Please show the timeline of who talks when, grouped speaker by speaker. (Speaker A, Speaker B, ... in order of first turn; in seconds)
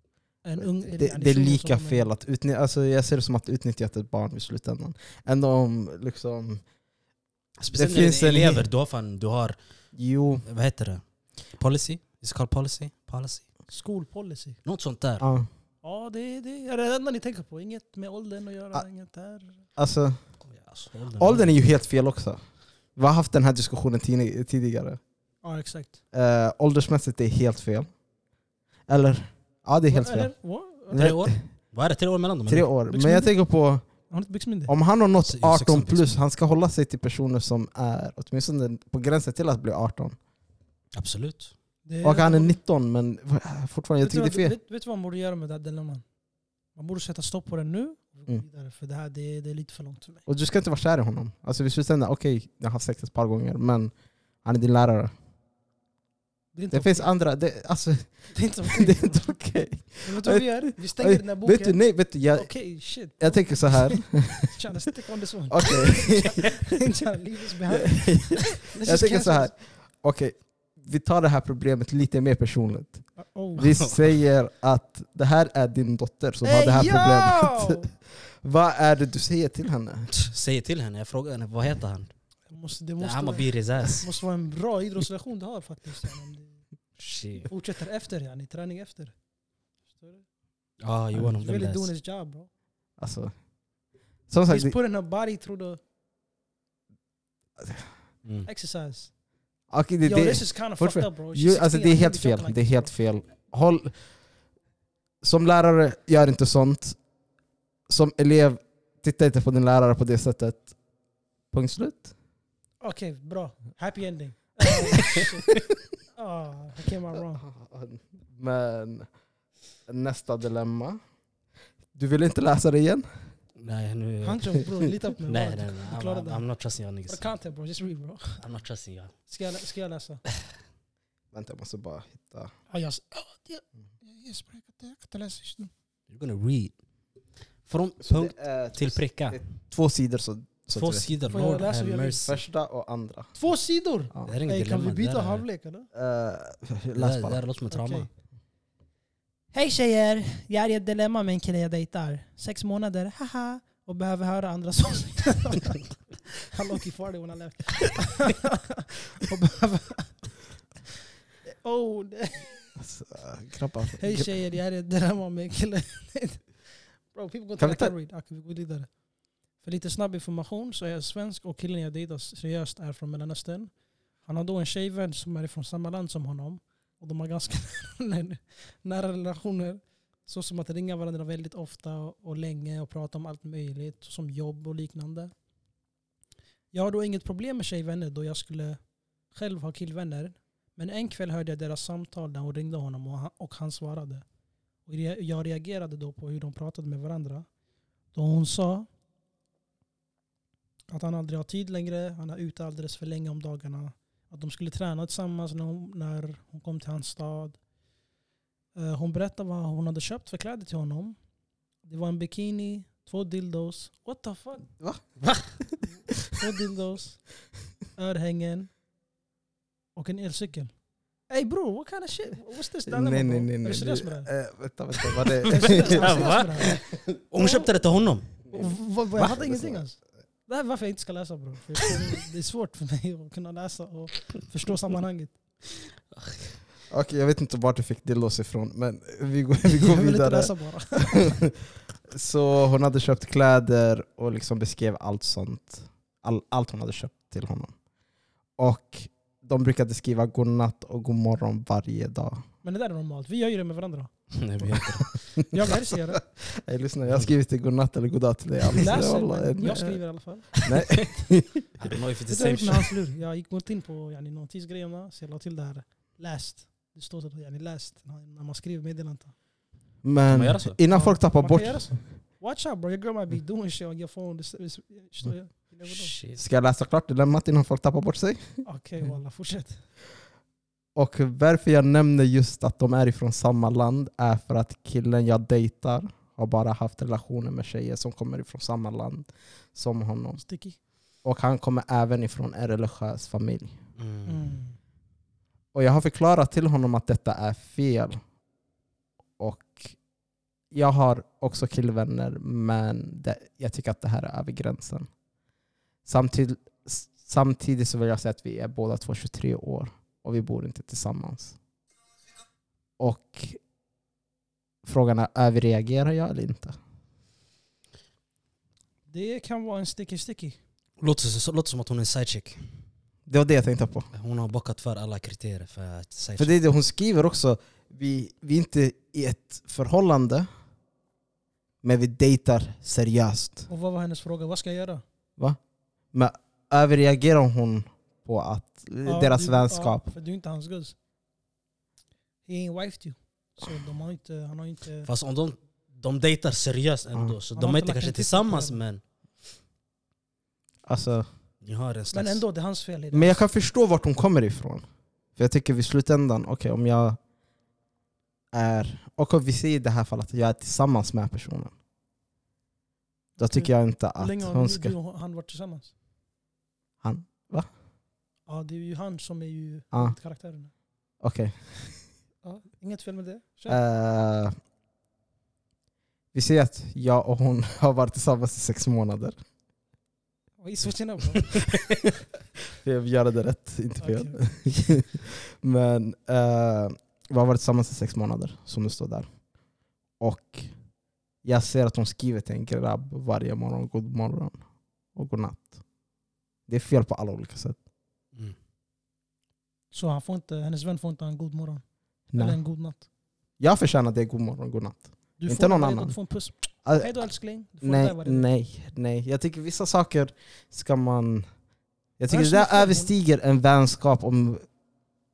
Speaker A: 0.4-2.1, 13.7-14.6, 15.8-19.6, 25.4-26.0, 29.9-31.1, 32.9-33.3, 34.1-34.7, 41.8-42.6, 44.0-46.0, 46.7-50.2, 56.5-57.1, 58.3-59.3, 60.0-61.8, 62.3-69.5, 73.2-73.7, 76.4-77.9, 82.5-86.6, 87.5-89.1, 89.9-90.2, 91.3-92.5, 94.5-95.8, 98.4-99.1, 100.0-102.9, 112.8-115.5, 116.1-117.4, 124.2-126.5, 127.1-128.4, 129.3-130.2, 132.7-135.7, 141.3-142.2, 143.3-145.9, 147.7-148.1, 149.5-155.9, 156.4-160.3, 161.4-162.5, 164.0-169.0, 169.6-185.3, 186.7-194.2, 194.8-197.5, 198.1-198.9, 200.9-207.6, 208.7-211.2, 211.8-214.7, 216.3-217.2, 217.9-218.7, 219.9-220.7, 221.3-224.3, 225.4-226.8, 227.4-227.7, 228.5-235.4, 239.7-241.3, 252.6-254.1, 255.5-256.2, 258.8-260.6, 262.3-269.3, 270.9-276.1, 278.6-279.8, 290.4-290.8, 294.3-294.8, 319.1-320.6, 333.7-335.0, 339.0-340.9, 342.4-345.1, 347.5-348.8, 352.1-353.4, 363.4-365.9, 368.5-370.7, 372.4-373.8, 380.6-381.6, 384.0-384.9, 399.9-403.1, 405.4-408.5, 412.3-413.1
Speaker B: 0.6-6.6, 7.7-8.7, 9.9-10.4, 15.2-15.5, 19.8-20.2, 21.2-22.4, 22.9-25.0, 26.1-27.9, 28.9-30.3, 30.9-31.3, 32.5-33.8, 34.7-40.2, 42.0-44.5, 50.2-55.1, 56.7-58.1, 58.7-64.6, 65.5-66.6, 67.8-80.1, 93.0-93.3, 94.3-94.8, 97.6-97.9, 99.7-104.0, 105.2-107.0, 107.9-110.7, 111.5-112.1, 117.4-119.1, 119.9-121.0, 121.9-123.1, 131.3-132.5, 138.0-141.1, 142.2-143.4, 145.9-147.4, 162.8-164.3, 167.6-167.9, 222.9-226.3, 228.5-229.9, 236.9-241.6, 242.1-247.7, 248.6-252.4, 255.9-260.0, 260.5-261.6, 270.0-272.1, 276.4-278.6, 280.9-290.4, 291.2-293.8, 295.7-298.2, 299.4-300.0, 300.7-305.1, 306.0-311.6, 313.0-313.6, 314.8-316.8, 323.3-324.1, 326.4-330.5, 331.8-333.7, 336.1-340.1, 350.9-351.2, 353.1-354.8, 355.4-357.2, 358.5-361.7, 363.4-364.9, 367.0-367.7, 371.2-372.0, 373.7-374.5, 376.3-379.4, 382.8-389.3, 390.2-390.7, 391.4-394.6, 395.1-395.8, 396.7-397.8, 402.3-402.6, 403.6-406.2, 406.8-407.1, 407.8-411.5, 412.2-414.6
Speaker C: 7.6-9.6, 10.4-11.0, 11.6-13.4, 14.6-15.2, 20.5-21.5, 30.9-32.7, 35.2-36.1, 40.9-41.5, 80.1-82.1, 83.0-84.1, 87.0-87.5, 90.8-91.9, 123.6-124.6, 125.3-127.2, 128.4-129.1, 136.1-136.8, 137.7-139.4, 140.7-142.3, 144.2-145.4, 146.9-148.1, 215.2-215.5, 225.7-228.3, 254.3-255.2, 260.7-261.0, 261.8-262.9, 270.3-270.8, 275.9-276.4, 294.0-294.4, 321.0-322.6, 324.1-326.6, 345.1-349.0, 351.6-352.4